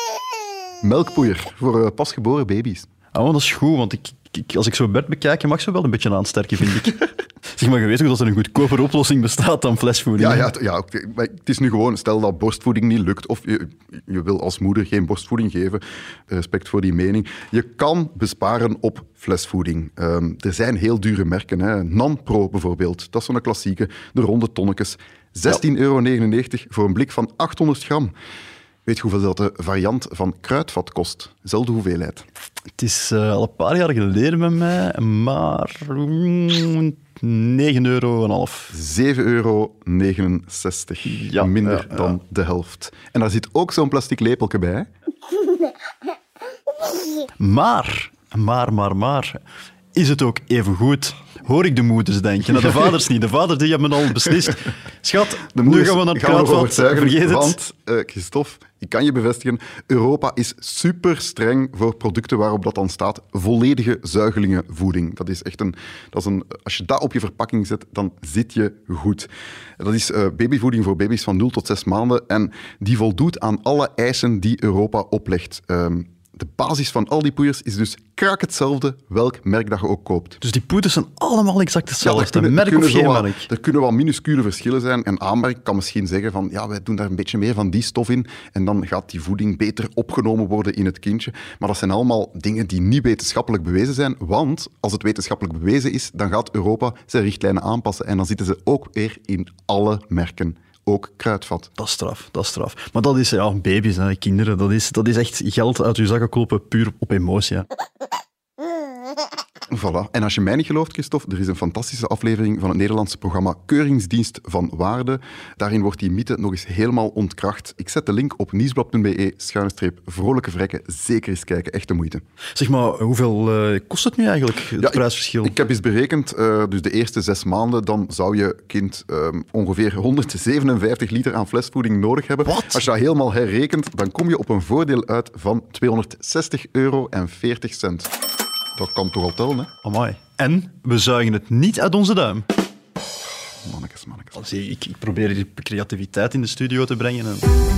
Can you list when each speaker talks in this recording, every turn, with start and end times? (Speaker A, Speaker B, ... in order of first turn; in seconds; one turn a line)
Speaker A: 0.8-2.9
Speaker B: 3.1-10.5
Speaker A: 10.2-28.1
Speaker A: 28.9-32.2
Speaker B: 32.8-38.7
Speaker A: 38.7-44.9
Speaker B: 41.1-42.1
Speaker B: 47.4-49.4
Speaker B: 49.9-57.6
Speaker A: 55.5-80.4
Speaker B: 80.4-83.5
Speaker A: 82.0-101.7
Speaker B: 101.8-107.7
Speaker A: 109.7-122.2
Speaker B: 122.5-125.5
Speaker A: 124.8-138.1
Speaker B: 132.5-132.8
Speaker A: 138.8-139.7
Speaker B: 139.8-142.5
Speaker A: 143.6-144.4
Speaker B: 144.3-147.5